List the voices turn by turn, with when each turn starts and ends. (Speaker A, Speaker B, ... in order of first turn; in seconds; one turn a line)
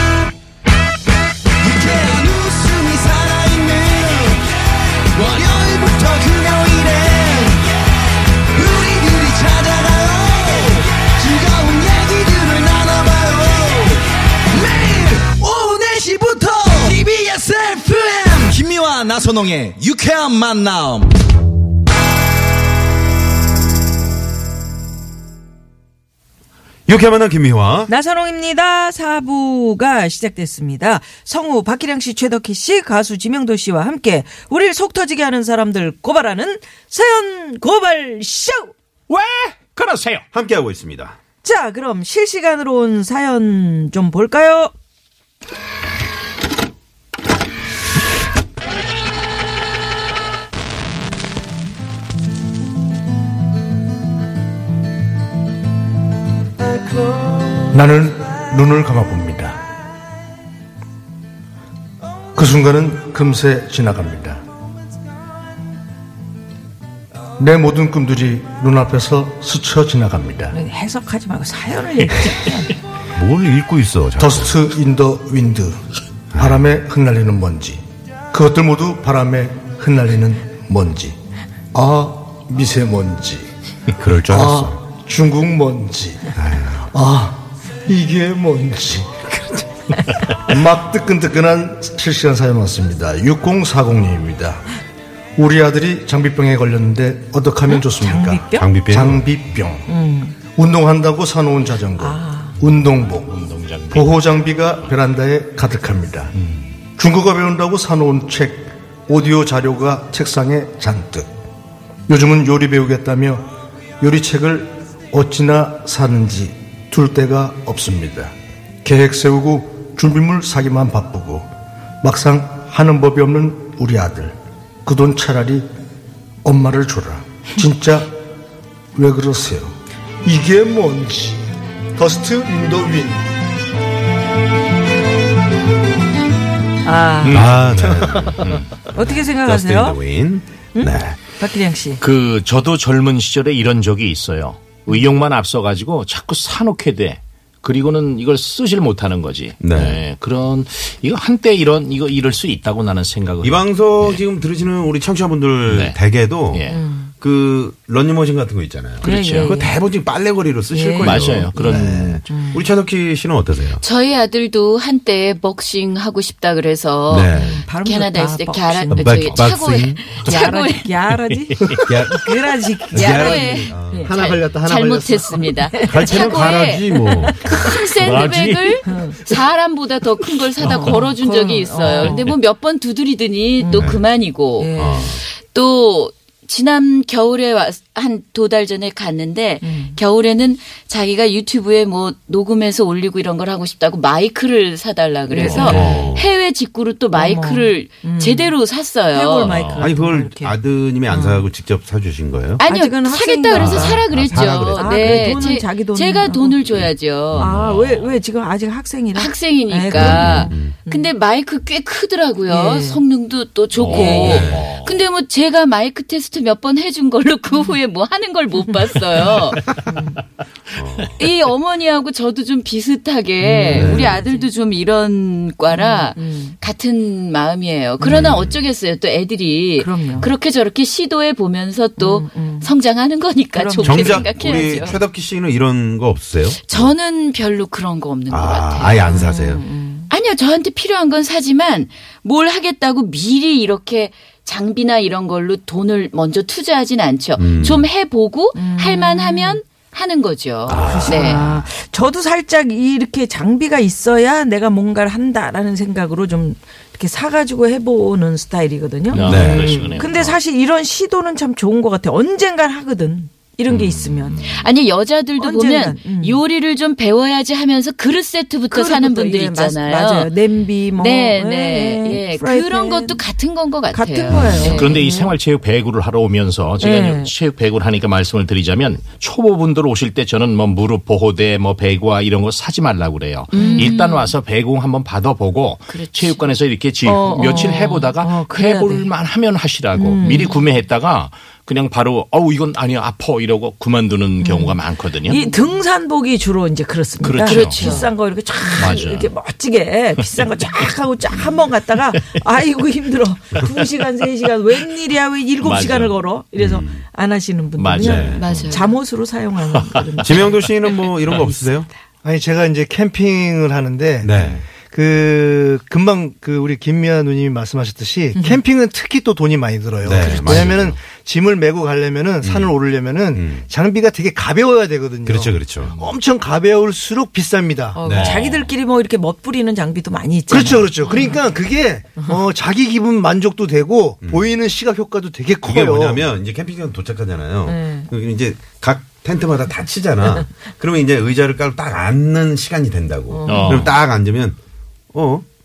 Speaker A: 1.6-4.4
Speaker B: 5.2-5.7
Speaker A: 5.2-7.6
Speaker B: 8.6-10.6
Speaker A: 9.6-10.1
Speaker B: 11.3-13.8
Speaker B: 14.5-20.7
Speaker C: 26.9-27.9
Speaker D: 27.9-38.7
Speaker E: 39.1-40.2
Speaker C: 40.3-41.1
Speaker D: 41.4-44.7
Speaker A: 57.7-59.6
Speaker A: 62.3-64.4
Speaker A: 67.4-70.6
Speaker D: 70.5-72.7
Speaker C: 73.1-74.6
Speaker A: 74.2-75.8
Speaker C: 76.3-76.7
Speaker A: 76.3-81.2
Speaker A: 81.7-83.5
Speaker C: 84.0-84.8
Speaker A: 84.3-89.6
Speaker C: 86.3-86.8
Speaker A: 90.3-94.7
Speaker A: 95.4-99.8
Speaker D: 97.7-98.7
Speaker C: 98.5-99.3
Speaker D: 99.9-100.4
Speaker A: 100.5-103.4
Speaker D: 102.0-102.6
Speaker E: 103.2-104.9
Speaker A: 103.9-106.3
Speaker A: 107.0-111.3
Speaker A: 112.1-113.4
Speaker A: 114.0-118.3
Speaker A: 118.8-121.5
Speaker A: 122.0-125.7
Speaker A: 126.4-128.1
Speaker A: 128.9-133.2
Speaker D: 136.8-137.5
Speaker E: 137.2-137.6
Speaker C: 137.3-141.2
Speaker A: 137.7-138.5
Speaker E: 138.4-138.7
Speaker D: 138.9-140.0
Speaker D: 140.7-142.0
Speaker E: 142.0-154.2
Speaker C: 149.6-150.0
Speaker C: 153.4-163.8
Speaker E: 155.7-156.0
Speaker E: 156.5-156.8
Speaker D: 156.7-157.1
Speaker E: 159.0-159.5
Speaker D: 159.0-159.8
Speaker D: 160.7-162.7
Speaker E: 161.0-162.2
Speaker F: 163.8-170.9
Speaker C: 167.1-167.6
Speaker D: 167.3-169.5
Speaker C: 168.9-170.2
Speaker D: 170.1-174.1
Speaker E: 171.1-171.8
Speaker C: 171.8-172.3
Speaker C: 172.9-174.2
Speaker F: 172.9-199.6
Speaker A: 173.8-175.6
Speaker D: 175.6-176.4
Speaker C: 175.8-177.5
Speaker D: 176.9-177.7
Speaker E: 178.0-178.8
Speaker D: 178.8-179.2
Speaker E: 180.6-181.0
Speaker D: 180.6-182.3
Speaker E: 181.8-182.3
Speaker D: 183.6-184.0
Speaker C: 183.7-184.1
Speaker D: 184.6-185.1
Speaker C: 184.8-185.2
Speaker D: 189.6-190.0
Speaker E: 195.3-195.8
Speaker D: 195.3-196.0
Speaker C: 195.6-196.3
Speaker D: 197.1-198.6
Speaker D: 199.1-201.5
Speaker E: 199.5-199.8
Speaker C: 199.8-202.6
Speaker F: 202.6-207.5
Speaker D: 202.6-206.6
Speaker C: 203.5-205.5
Speaker C: 206.8-207.7
Speaker D: 207.3-211.1
Speaker E: 207.4-208.2
Speaker F: 209.1-219.7
Speaker C: 209.9-210.7
Speaker D: 212.5-213.0
Speaker E: 213.8-215.0
Speaker D: 213.8-214.5
Speaker C: 214.1-214.7
Speaker D: 219.8-220.2
Speaker C: 220.7-221.3
Speaker F: 221.2-235.0
Speaker D: 223.4-224.5
Speaker C: 223.7-224.2
Speaker D: 225.7-226.6
Speaker D: 228.0-228.3
Speaker C: 228.1-228.6
Speaker D: 229.8-230.3
Speaker D: 232.0-232.7
Speaker D: 233.5-234.3
Speaker C: 233.8-236.9
Speaker F: 236.6-239.3
Speaker C: 238.3-239.6
Speaker D: 239.1-240.1
Speaker F: 240.1-251.4
Speaker C: 247.3-247.9
Speaker D: 248.5-249.6
Speaker C: 250.7-251.7
Speaker D: 250.7-259.4
Speaker E: 259.1-260.4
Speaker C: 259.2-259.9
Speaker A: 259.2-260.0
Speaker D: 259.9-264.5
Speaker E: 263.7-264.6
Speaker F: 264.4-270.3
Speaker D: 265.4-266.4
Speaker D: 268.7-273.2
Speaker F: 270.9-275.0
Speaker D: 273.9-275.4
Speaker C: 274.3-274.7
Speaker E: 274.6-295.4
Speaker D: 276.8-277.3
Speaker F: 283.5-284.3
Speaker D: 283.5-284.0
Speaker F: 285.9-286.6
Speaker D: 287.0-289.1
Speaker D: 289.9-290.5
Speaker F: 290.2-290.6
Speaker D: 294.4-311.9
Speaker E: 297.2-298.1
Speaker F: 297.4-298.1
Speaker E: 298.8-299.3
Speaker E: 300.2-300.7
Speaker E: 305.6-306.1
Speaker C: 306.6-307.0
Speaker E: 307.8-308.8
Speaker C: 307.9-308.5
Speaker F: 308.3-308.9
Speaker E: 309.6-310.6
Speaker C: 310.2-311.9
Speaker A: 312.2-328.0
Speaker C: 314.2-314.6
Speaker D: 318.3-318.6
Speaker C: 320.0-321.0
Speaker F: 320.2-320.7
Speaker C: 322.4-322.8
Speaker C: 323.3-323.6
Speaker C: 325.2-325.9
Speaker D: 327.9-331.4
Speaker C: 328.0-328.4
Speaker E: 328.1-328.7
Speaker A: 330.5-336.2
Speaker C: 334.2-334.5
Speaker C: 335.6-344.6
Speaker D: 337.6-338.1
Speaker D: 343.3-343.9
Speaker E: 343.5-343.9
Speaker C: 345.1-345.4